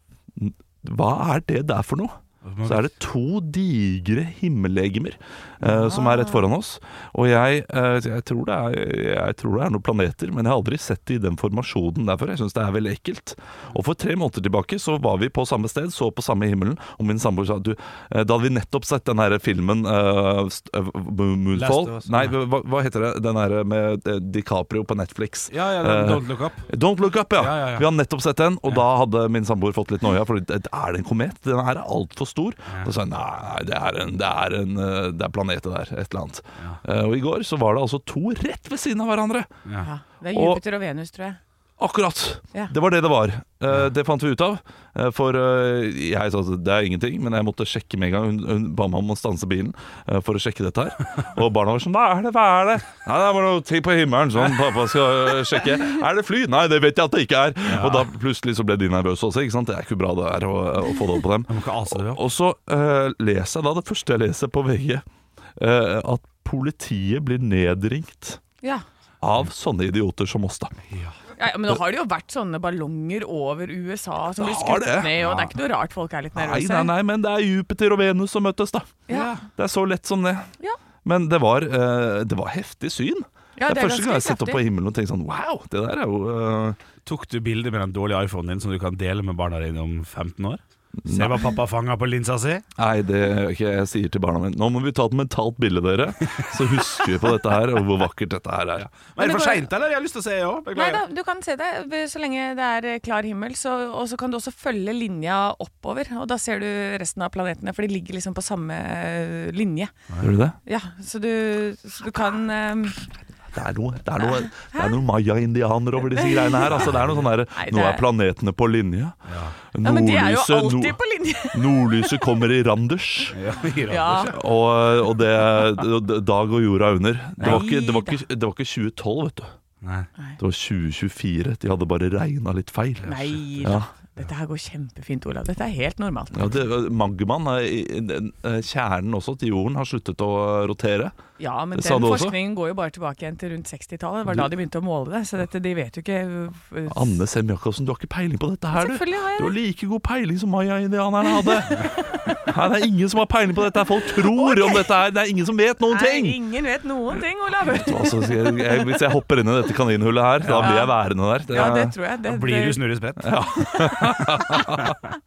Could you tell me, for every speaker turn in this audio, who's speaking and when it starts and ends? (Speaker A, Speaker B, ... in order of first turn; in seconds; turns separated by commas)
Speaker A: 0.4-39.5, Speaker B: 2.4-2.9, Speaker C: 5.7-6.4, Speaker B: 21.5-22.4, Speaker B: 25.5-26.7, Speaker B: 27.4-27.9, Speaker C: 39.8-41.4, Speaker A: 40.3-40.6, Speaker A: 41.8-65.0, Speaker B: 57.7-58.1, Speaker B: 61.5-62.2, Speaker A: 65.6-68.4, Speaker A: 69.2-70.8, Speaker B: 70.9-71.2, Speaker C: 71.4-76.9, Speaker A: 74.4-75.5, Speaker A: 76.3-79.0, Speaker C: 79.1-79.4, Speaker B: 79.1-79.4, Speaker A: 79.5-80.5, Speaker A: 81.0-86.8, Speaker C: 83.6-84.6, Speaker B: 87.0-92.7, Speaker A: 91.0-91.4, Speaker A: 92.8-98.9, Speaker B: 98.8-101.0, Speaker C: 99.2-99.7, Speaker C: 100.7-109.9, Speaker A: 110.2-110.6, Speaker C: 110.7-113.1, Speaker A: 113.5-121.0, Speaker C: 114.4-114.9, Speaker C: 116.1-116.9, Speaker B: 116.8-117.2, Speaker C: 117.5-118.0, Speaker B: 119.3-119.5, Speaker C: 119.8-122.4, Speaker A: 121.5-123.4, Speaker B: 123.3-124.4, Speaker C: 123.9-124.4, Speaker A: 124.2-129.5, Speaker B: 127.4-127.6, Speaker C: 127.4-128.2, Speaker B: 129.8-130.1, Speaker A: 130.4-133.9, Speaker B: 133.0-133.3, Speaker C: 133.1-136.6, Speaker A: 136.3-141.2, Speaker C: 141.4-147.2, Speaker A: 141.7-142.4, Speaker A: 146.9-156.4, Speaker C: 148.8-149.6, Speaker C: 151.4-152.2, Speaker C: 154.2-154.9, Speaker C: 155.9-159.0, Speaker A: 157.7-161.9, Speaker B: 160.4-160.8, Speaker C: 160.6-161.0, Speaker C: 161.5-162.8, Speaker B: 162.2-163.4, Speaker A: 163.2-165.0, Speaker C: 163.6-164.4